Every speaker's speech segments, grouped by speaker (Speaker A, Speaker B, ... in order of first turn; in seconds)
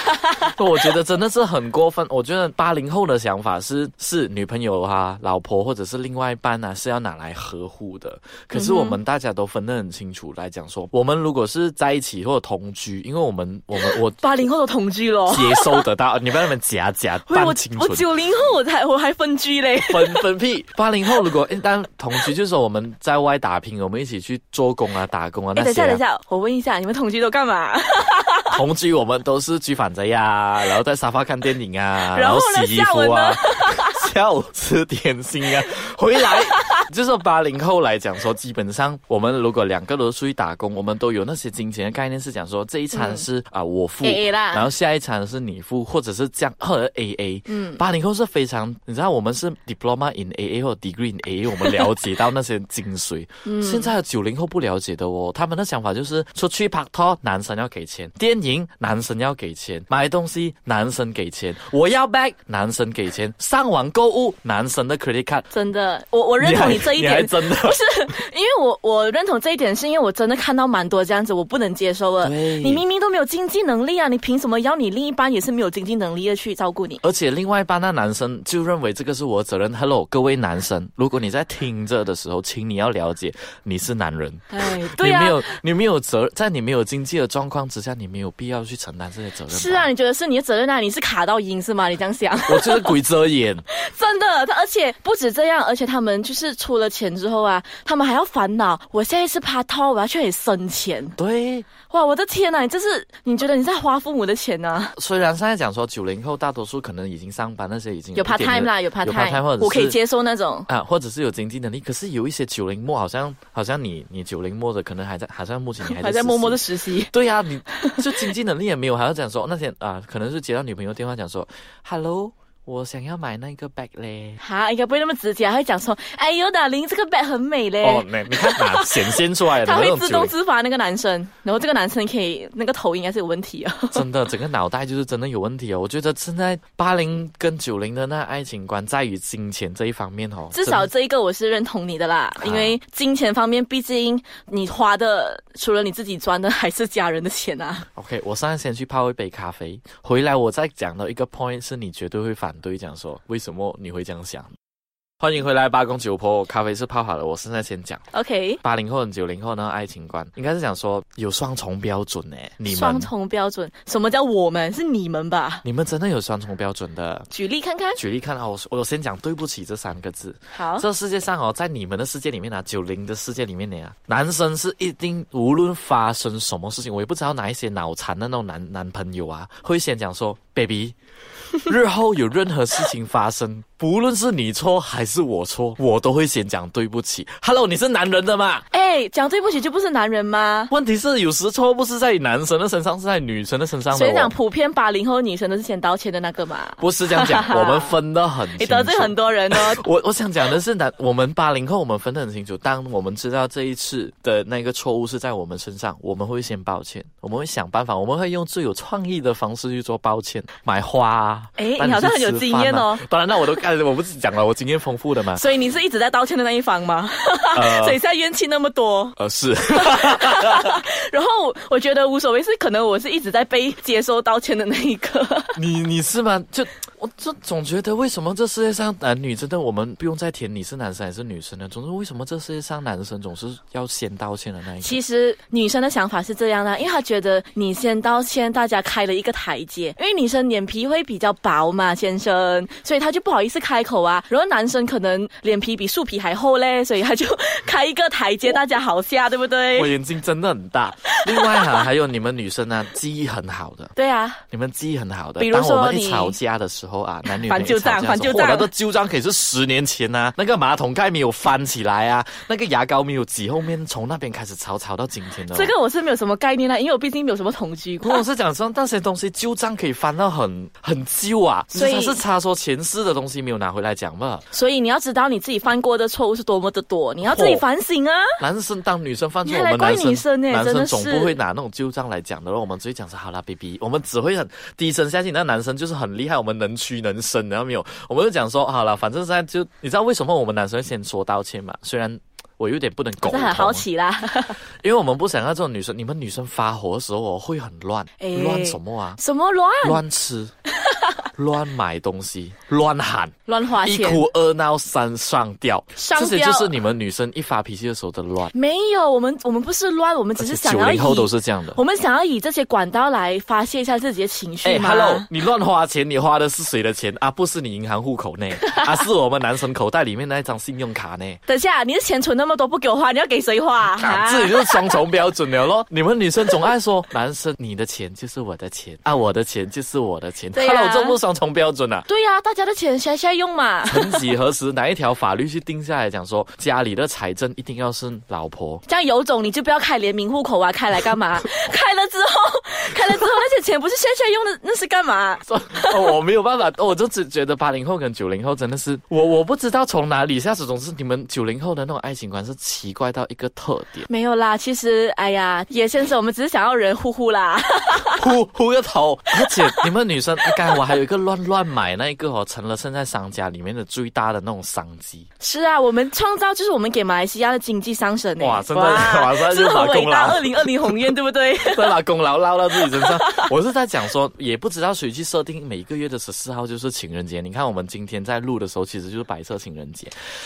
Speaker A: 0.1-0.5, 8.5-9.0, 13.8-15.8, 17.3-20.2, 25.6-28.6, 32.1-34.0, 42.9-43.2, 44.0-44.7, 47.5-47.8, 53.4-53.9, 65.5-77.0, 84.5-85.5, 89.5-93.0, 93.7-101.2, 101.9-104.9, 108.1-110.7, 115.8-117.1, 117.8-118.0, 124.4-134.0, 140.5-147.9, 158.1-158.6, 162.7-165.6, 167.3-168.0, 170.5-170.9, 188.7-190.7, 193.9-197.9, 198.5-199.8, 211.6-213.0, 215.3-219.2, 219.7-225.6, 234.8-249.9, 251.2-251.7, 253.9-254.4, 255.4-256.4, 257.2-258.7, 265.5-268.2, 271.7-272.2, 274.5-278.4, 279.4-281.4, 293.2-294.6, 298.2-300.0, 303.4-304.3, 305.9-306.8, 308.5-315.3, 321.5-324.9, 330.6-331.2, 332.1-334.2, 338.9-346.0, 354.1-358.2, 365.4-372.0, 372.8-373.5
Speaker B: 0.4-14.2, 15.3-18.1, 19.9-26.0, 28.5-65.5, 66.4-68.1, 72.2-72.8, 77.0-89.9, 92.5-93.6, 101.2-101.7, 105.0-110.0, 110.7-124.4, 127.8-130.3, 133.9-140.9, 142.4-142.8, 147.9-154.5, 155.2-158.0, 158.6-163.1, 165.6-167.3, 167.9-180.9, 181.6-188.6, 190.7-194.3, 196.8-215.4, 217.5-218.0, 219.2-220.8, 225.6-235.0, 249.8-253.9, 254.5-265.7, 268.0-274.4, 277.2-277.6, 278.4-293.9, 294.8-299.2, 299.8-300.5, 301.4-308.5, 310.4-311.8, 314.6-321.4, 324.0-332.1, 333.9-338.8, 345.5-354.1, 358.2-365.3, 368.4-371.1, 371.6-380.1